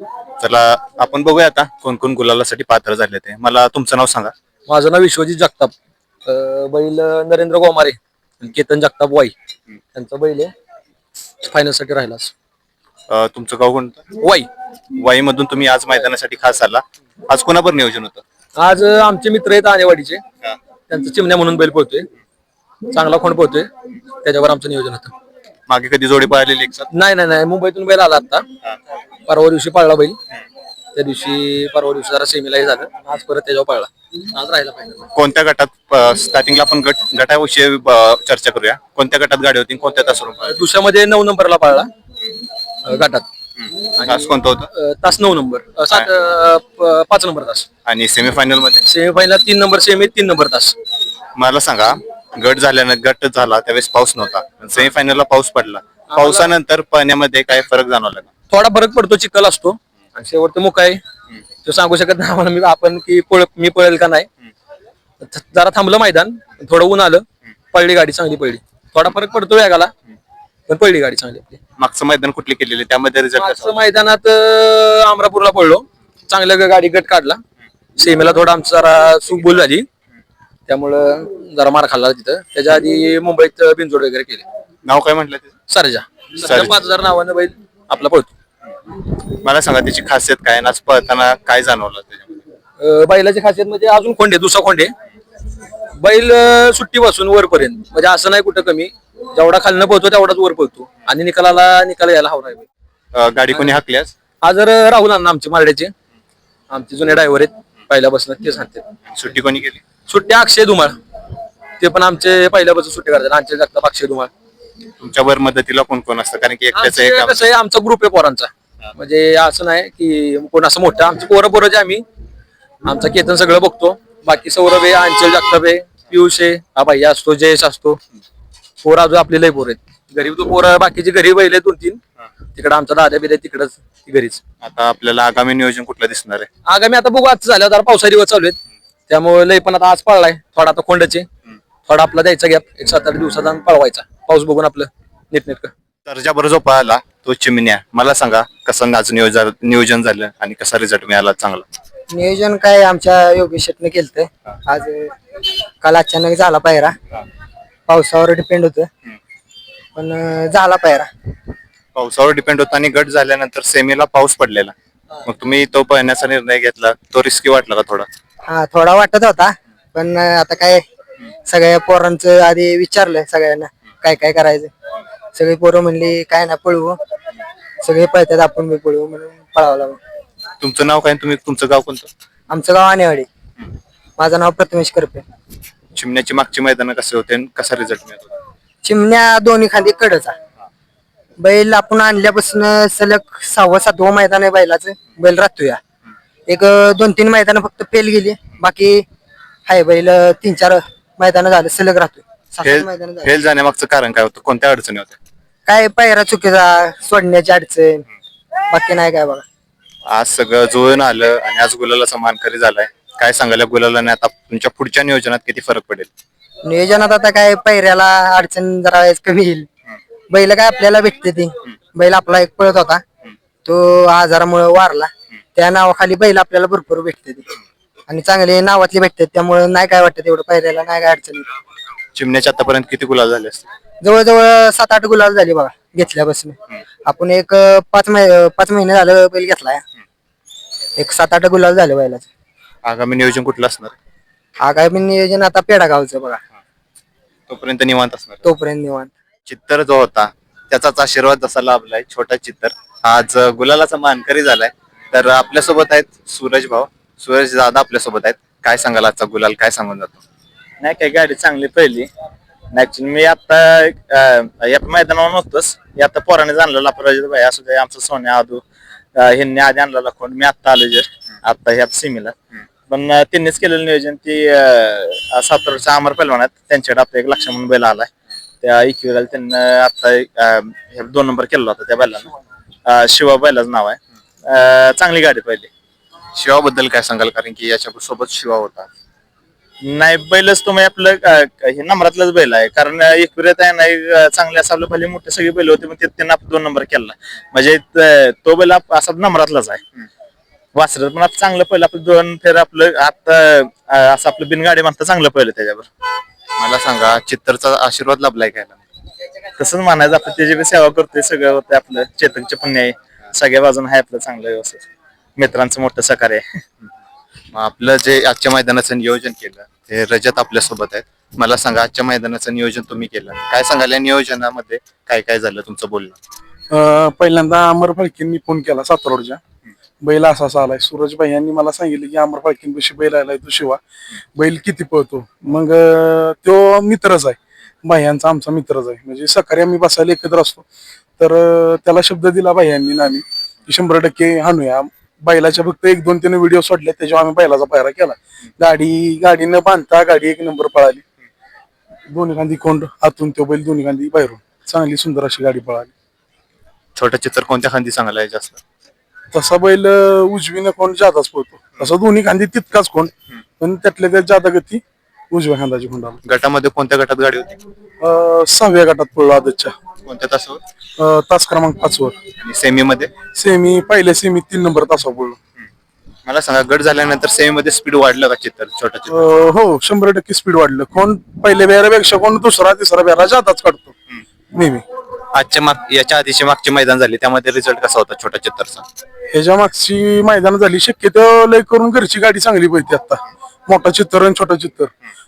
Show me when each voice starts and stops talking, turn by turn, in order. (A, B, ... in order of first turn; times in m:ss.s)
0:00.4-0:04.3 A
0:04.7-0:05.7 B
0:06.3-0:09.3 B
0:10.0-0:10.5 B
0:11.4-0:12.3 B
0:13.1-0:14.0 A
0:14.2-0:14.5 B
0:14.9-0:18.2 A
0:18.6-0:20.2 B
0:20.9-0:22.1 B
0:22.9-0:23.7 B
0:24.2-0:25.1 B
0:25.7-0:26.9 A
0:26.9-0:28.4 B
0:29.3-0:30.2 B
0:31.0-0:35.1 B
0:35.2-0:40.6 A
0:40.5-0:41.9 B
0:42.8-0:43.2 B
0:43.6-0:44.7 A
0:44.0-0:47.7 B
0:47.9-0:48.8 A
0:48.9-0:50.8 B
0:51.4-0:58.3 A
0:56.1-0:56.5 B
0:58.5-1:01.0 B
1:01.6-1:04.3 B
1:05.2-1:09.9 B
1:10.7-1:11.6 B
1:11.8-1:13.8 A
1:13.4-1:17.4 B
1:18.0-1:19.9 B
1:20.7-1:24.4 B
1:24.9-1:25.5 A
1:25.7-1:28.3 B
1:26.4-1:26.8 A
1:29.3-1:32.3 A
1:32.8-1:34.9 B
1:36.0-1:42.7 B
1:43.1-1:44.1 A
1:43.5-1:43.8 B
1:44.4-1:45.9 B
1:46.7-1:48.8 B
1:49.1-1:49.8 A
1:50.1-1:51.0 B
1:51.8-1:54.3 B
1:55.0-1:57.4 A
1:56.7-2:02.0 B
2:02.8-2:08.0 B
2:08.8-2:12.0 B
2:12.6-2:14.4 B
2:14.6-2:16.5 A
2:16.7-2:18.6 B
2:19.1-2:21.3 B
2:21.9-2:25.7 B
2:26.1-2:31.7 A
2:32.1-2:35.1 C
2:35.8-2:36.9 C
2:37.9-2:38.9 C
2:40.0-2:41.1 C
2:42.0-2:44.7 A
2:45.3-2:48.1 A
2:48.5-2:50.8 C
2:51.5-2:54.7 C
2:55.4-2:57.0 C
2:57.8-3:00.0 C
3:00.6-3:02.1 A
3:02.5-3:03.3 C
3:04.2-3:05.2 C
3:06.0-3:08.4 A
3:08.8-3:10.3 C
3:11.4-3:15.8 C
3:16.5-3:19.0 C
3:19.7-3:23.3 C
3:22.6-3:25.2 A
3:25.7-3:28.1 C
3:28.7-3:29.4 C
3:30.1-3:36.1 A
3:36.7-3:39.7 C
3:40.3-3:43.0 C
3:43.6-3:47.5 C
3:48.1-3:51.4 C
3:52.1-3:53.7 A
3:54.0-3:59.8 C
4:01.0-4:02.3 C
4:02.9-4:03.9 A
4:04.6-4:06.4 C
4:07.5-4:08.4 A
4:08.4-4:09.1 C
4:09.5-4:20.2 A
4:20.8-4:22.0 D
4:21.4-4:22.1 E
4:22.8-4:28.6 E
4:22.8-4:28.6 D
4:29.2-4:30.8 D
4:29.2-4:32.3 E
4:32.9-4:38.1 E
4:32.9-4:34.2 D
4:35.2-4:35.6 D
4:36.1-4:36.7 D
4:38.6-4:42.1 E
4:39.2-4:40.0 D
4:42.9-4:43.9 E
4:43.0-4:43.6 D
4:44.5-4:45.6 D
4:44.6-4:45.6 E
4:46.4-4:48.9 A
4:49.8-4:59.8 D
4:50.3-4:51.0 E
4:51.6-4:52.2 E
4:53.2-4:53.7 E
4:55.3-4:55.7 E
4:58.9-4:59.2 E
5:00.8-5:05.8 D
5:06.6-5:08.8 A
5:09.6-5:14.8 D
5:09.9-5:10.6 E
5:12.2-5:12.5 E
5:15.4-5:16.4 D
5:15.4-5:16.4 E
5:17.5-5:26.2 A
5:26.7-5:29.4 F
5:30.0-5:33.8 F
5:34.4-5:40.6 F
5:41.2-5:51.0 F
5:52.1-5:55.9 F
5:57.0-5:58.6 A
5:59.3-6:06.2 F
6:06.3-6:07.6 A
6:08.0-6:09.7 F
6:10.1-6:10.6 A
6:11.0-6:12.2 F
6:12.4-6:13.1 A
6:13.3-6:15.4 F
6:16.3-6:19.3 A
6:19.1-6:23.9 F
6:24.5-6:24.8 F
6:25.3-6:28.8 A
6:29.3-6:34.9 F